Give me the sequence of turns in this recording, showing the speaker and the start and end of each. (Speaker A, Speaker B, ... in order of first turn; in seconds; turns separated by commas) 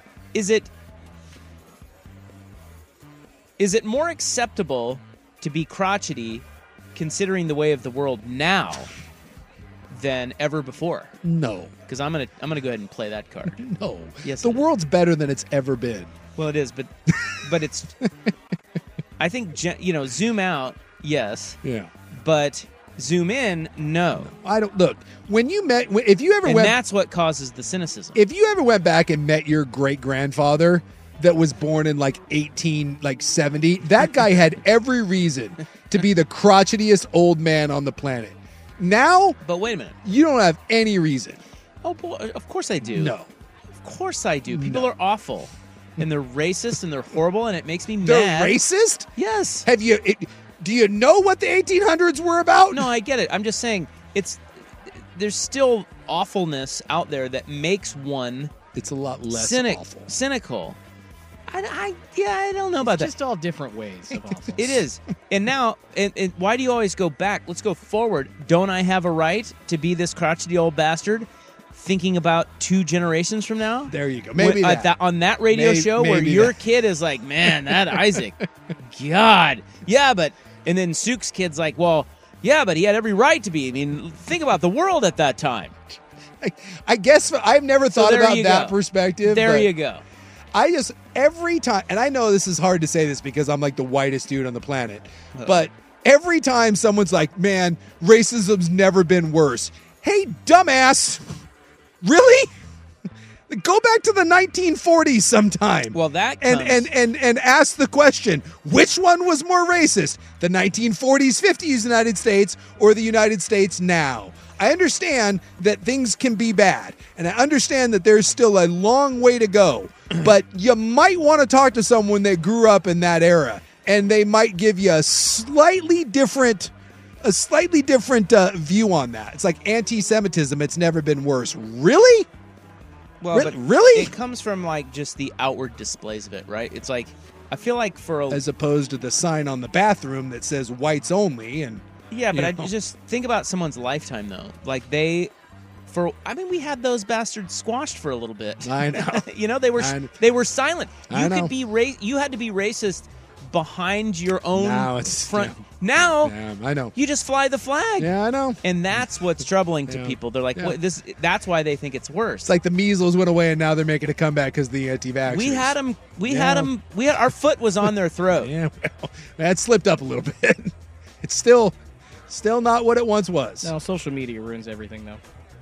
Speaker A: 0.3-0.7, Speaker A: 3.6-8.9, Speaker A: 9.9-11.1, Speaker B: 11.2-11.7, Speaker A: 11.9-13.6, Speaker B: 13.6-16.1, Speaker A: 14.2-14.7, Speaker A: 16.4-17.9, Speaker A: 19.2-21.6, Speaker B: 21.6-21.9, Speaker A: 22.1-24.3, Speaker B: 24.2-26.8, Speaker A: 26.4-28.2, Speaker B: 28.1-39.4, Speaker A: 39.4-40.0, Speaker B: 40.0-41.4, Speaker A: 41.8-43.1, Speaker B: 42.8-43.3, Speaker A: 43.8-48.6, Speaker B: 44.5-44.9, Speaker B: 48.0-49.1, Speaker A: 49.2-49.7, Speaker B: 49.6-52.9, Speaker A: 52.7-58.5, Speaker B: 58.7-60.1, Speaker A: 59.3-60.8, Speaker A: 61.5-63.1, Speaker C: 62.8-64.8, Speaker A: 64.6-78.4, Speaker B: 73.9-74.9, Speaker B: 75.5-76.6, Speaker B: 77.7-78.0, Speaker A: 78.9-85.7, Speaker B: 86.4-89.7, Speaker A: 87.9-90.0, Speaker B: 90.5-101.3, Speaker A: 95.3-95.7, Speaker B: 102.0-102.5, Speaker B: 103.5-126.7, Speaker A: 105.9-106.9, Speaker B: 127.2-132.3, Speaker A: 133.2-138.4, Speaker B: 133.3-134.1, Speaker B: 138.3-142.7, Speaker A: 142.1-145.3, Speaker A: 145.9-156.3, Speaker B: 148.6-149.2, Speaker B: 149.8-150.1, Speaker B: 151.1-151.5, Speaker B: 154.5-155.6, Speaker B: 156.2-156.9, Speaker A: 156.9-158.1, Speaker B: 158.0-158.6, Speaker A: 158.6-162.5, Speaker B: 159.9-160.8, Speaker B: 162.4-166.7, Speaker A: 165.3-168.5, Speaker B: 168.3-171.8, Speaker B: 172.3-173.7, Speaker C: 173.6-175.2